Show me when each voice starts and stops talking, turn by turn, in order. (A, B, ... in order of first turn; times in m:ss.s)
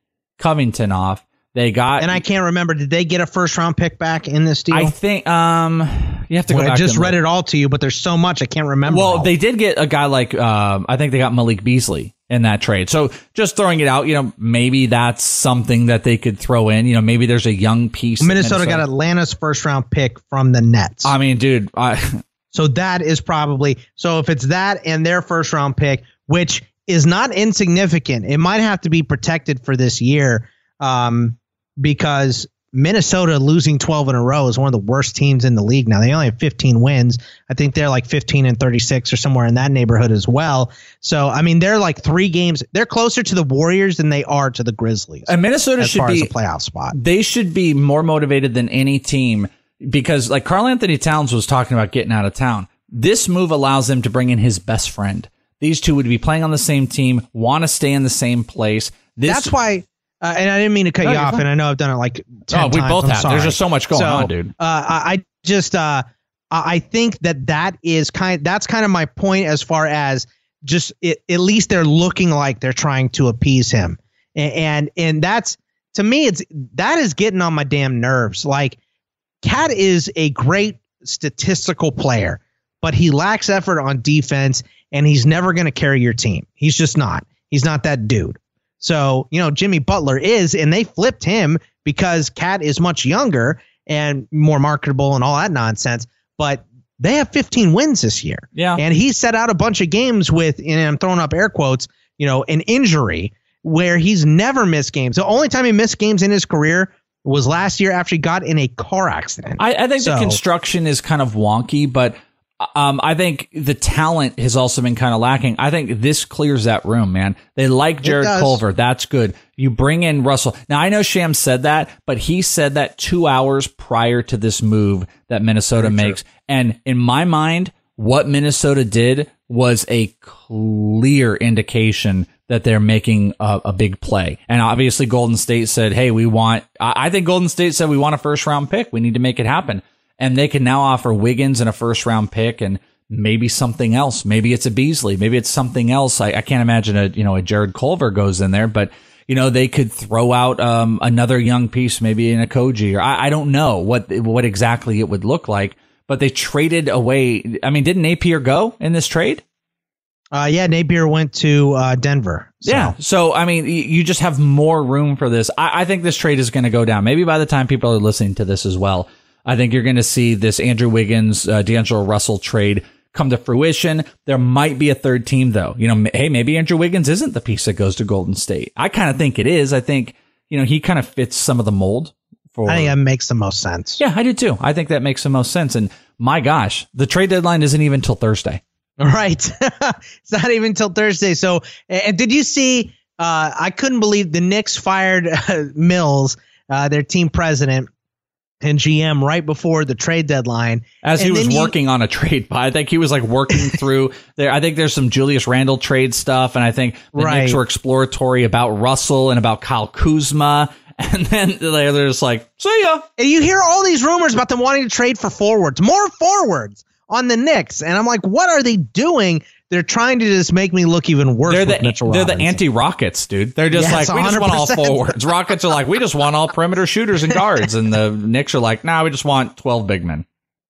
0:00.4-0:02.2 A
0:02.0-0:04.9 B
0:04.7-0:07.2 A
0:06.5-0:09.3 B
0:08.9-0:18.8 A
0:18.2-0:21.1 B
0:21.0-0:22.2 A
0:22.5-0:47.0 B
0:45.3-0:46.3 A
0:46.9-0:59.5 A
0:59.2-1:18.8 B
1:01.0-1:01.4 A
1:02.5-1:04.5 A
1:19.4-1:50.4 B
1:38.5-1:38.8 A
1:49.6-2:39.4 A
1:58.0-1:58.6 B
2:05.8-2:06.2 B
2:40.3-2:42.9 B
2:42.6-3:02.9 A
3:02.6-3:04.0 B
3:04.0-3:08.6 A
3:09.0-3:17.9 B
3:18.6-3:21.7 B
3:21.0-3:33.0 A
3:27.1-3:27.6 B
3:33.2-3:42.6 B
3:41.5-3:50.2 A
3:43.7-3:45.2 B